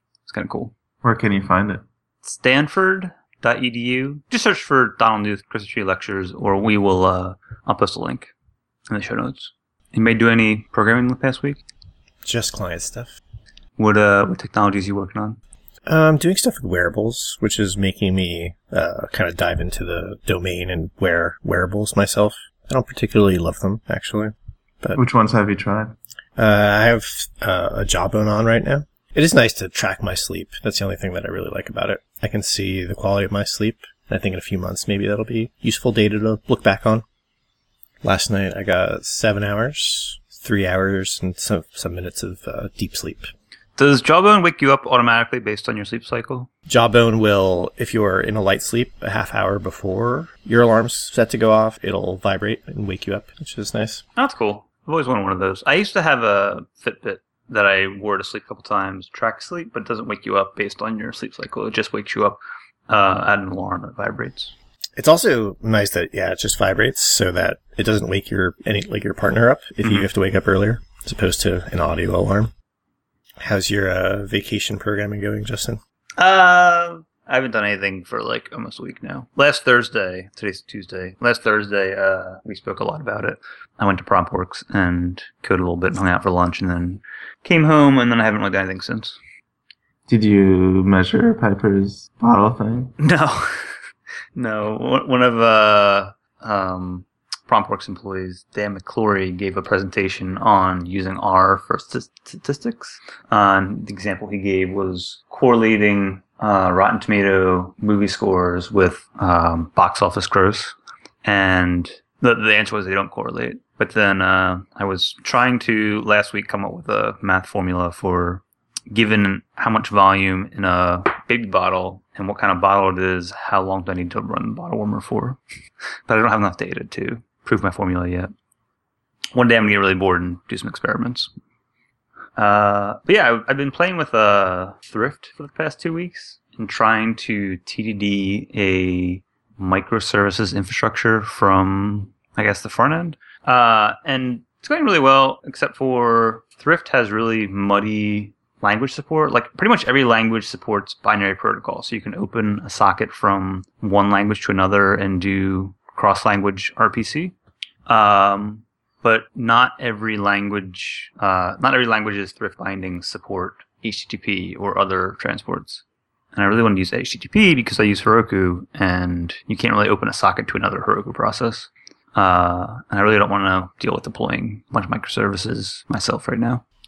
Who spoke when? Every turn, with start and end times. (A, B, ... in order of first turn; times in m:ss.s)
0:00.2-0:00.7 A
0:01.0-0:01.8 B
0:02.2-0:08.3 A
0:08.9-0:11.6 A
0:12.2-0:13.2 C
0:13.8-0:15.4 A
0:15.9-0:25.0 C
0:25.0-0:26.0 B
0:26.4-0:37.0 C
0:38.0-0:43.3 C
0:43.8-0:46.5 A
0:46.7-0:54.0 C
0:54.2-1:04.5 A
1:05.0-1:12.5 C
1:09.8-1:10.1 A
1:13.4-1:15.8 C
1:16.2-1:29.2 A
1:30.1-1:33.0 B
1:33.0-1:33.6 A
1:34.4-2:05.4 A
2:06.1-2:08.3 A
2:09.3-2:11.3 A
2:12.4-2:37.3 A
2:37.9-2:45.8 A
2:46.3-2:56.6 A